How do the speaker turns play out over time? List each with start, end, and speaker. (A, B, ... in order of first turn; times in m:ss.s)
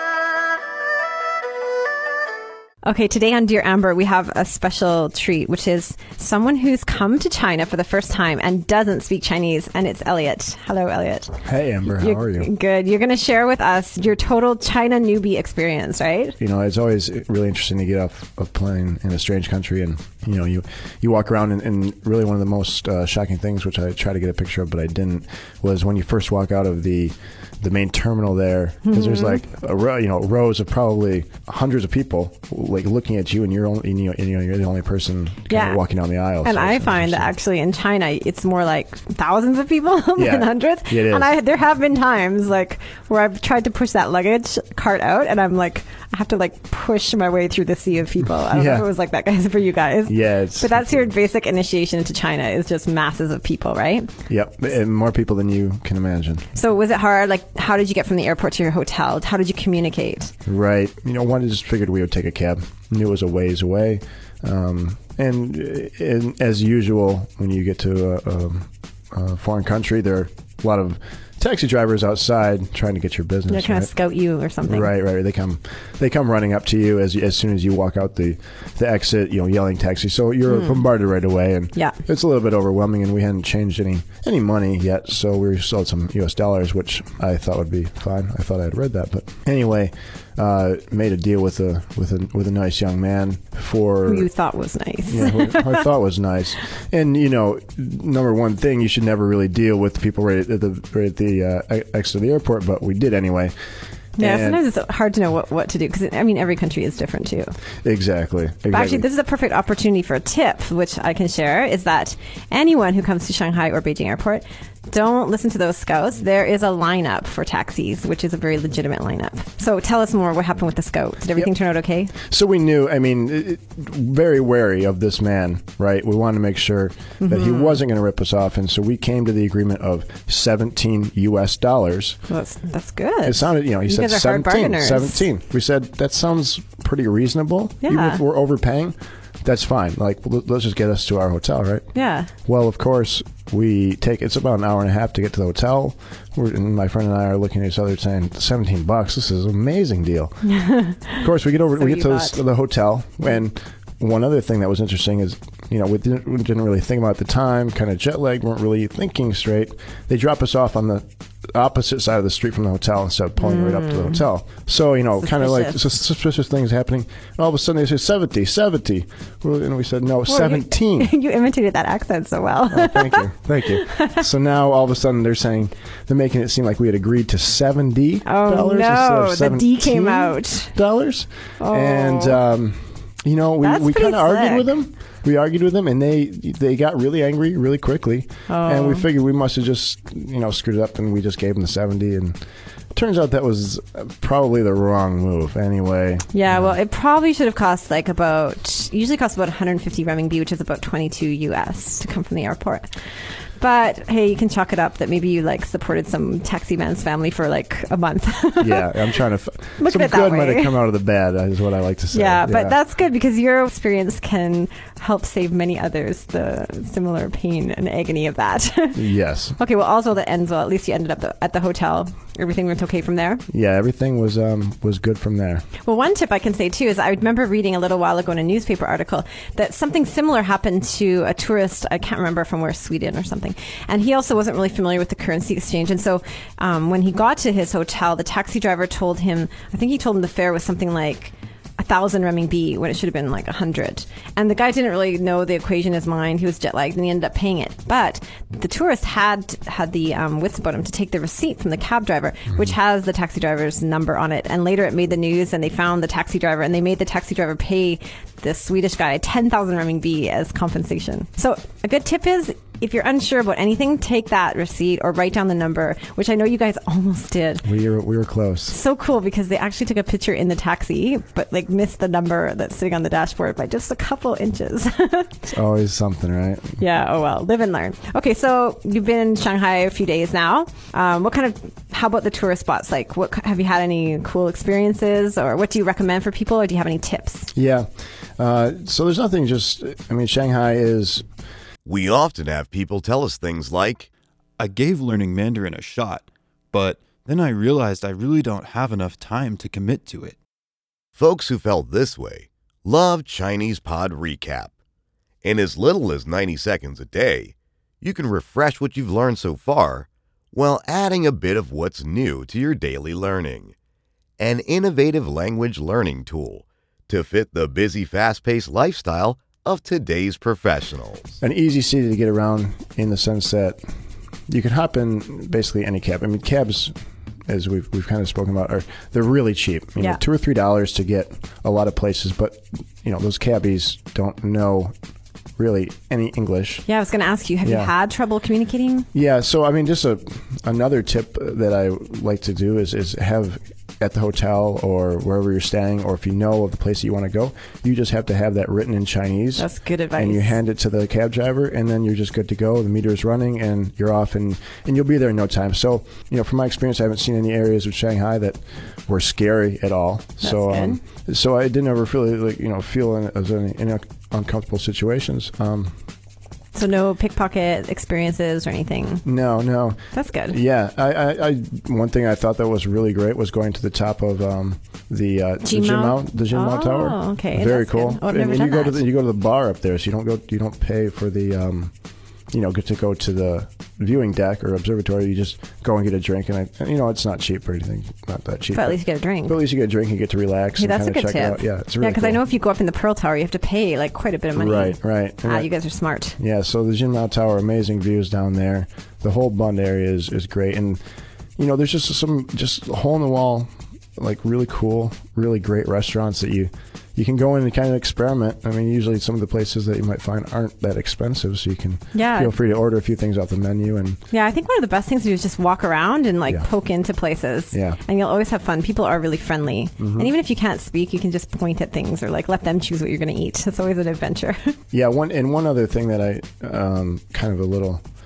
0:02.8-0:11.3 A
0:11.4-0:12.5 B
0:11.9-0:16.4 A
0:16.4-0:37.3 B
0:28.8-0:29.4 A
0:35.5-0:35.8 A
0:36.4-0:54.1 A
0:40.2-0:41.3 B
0:48.4-0:48.9 B
0:50.0-0:51.1 B
0:54.3-0:56.5 B
0:56.5-1:00.3 A
1:00.4-1:13.9 B
1:13.5-1:14.9 A
1:14.7-1:34.3 B
1:20.5-1:20.8 A
1:34.1-1:35.8 A
1:35.1-1:43.5 B
1:44.2-1:44.6 B
1:44.2-1:47.5 A
1:47.8-1:49.1 B
1:48.7-2:02.1 A
2:02.2-2:12.2 B
2:07.2-2:07.8 A
2:12.3-2:15.2 A
2:13.2-2:21.9 B
2:17.8-2:18.2 A
2:21.9-2:22.3 A
2:22.4-2:30.4 B
2:30.4-2:32.4 A
2:31.1-2:51.1 B
2:43.4-2:44.2 A
2:45.2-2:45.8 A
2:50.3-2:54.2 A
2:52.7-3:12.4 B
2:58.2-3:00.7 A
3:01.6-3:02.4 A
3:03.6-3:04.7 A
3:08.5-3:09.1 A
3:12.9-3:16.7 B
3:16.3-3:22.9 A
3:23.6-3:29.0 A
3:28.6-3:32.8 B
3:29.8-3:30.8 A
3:32.1-3:39.0 A
3:38.9-3:39.6 B
3:39.6-3:43.4 A
3:43.5-3:45.6 B
3:45.8-4:27.6 A
4:27.6-4:28.8 B
4:28.7-4:35.3 A
4:35.5-4:36.8 B
4:36.8-4:47.5 A
4:47.5-4:51.2 B
4:51.8-4:54.1 C
4:54.6-5:00.4 D
5:01.2-5:04.7 C
5:05.4-5:13.7 C
5:14.4-5:21.3 C
5:21.4-5:23.8 B
5:24.5-5:26.9 B
5:27.5-5:34.9 B
5:35.6-5:36.8 B
5:36.9-5:39.1 A
5:37.6-5:37.9 B
5:39.1-6:05.9 B
5:49.6-5:50.5 A
6:00.4-6:01.0 A
6:06.7-6:09.2 A
6:09.2-6:21.9 B
6:10.1-6:10.6 A
6:15.6-6:19.0 A
6:22.5-6:32.4 B
6:28.7-6:29.6 A
6:30.8-6:36.4 A
6:34.6-6:35.7 B
6:36.4-6:41.0 B
6:41.6-6:54.2 B
6:52.1-6:52.5 A
6:54.3-7:04.7 A
6:57.7-6:58.0 B
7:00.0-7:00.3 B
7:04.9-7:08.0 B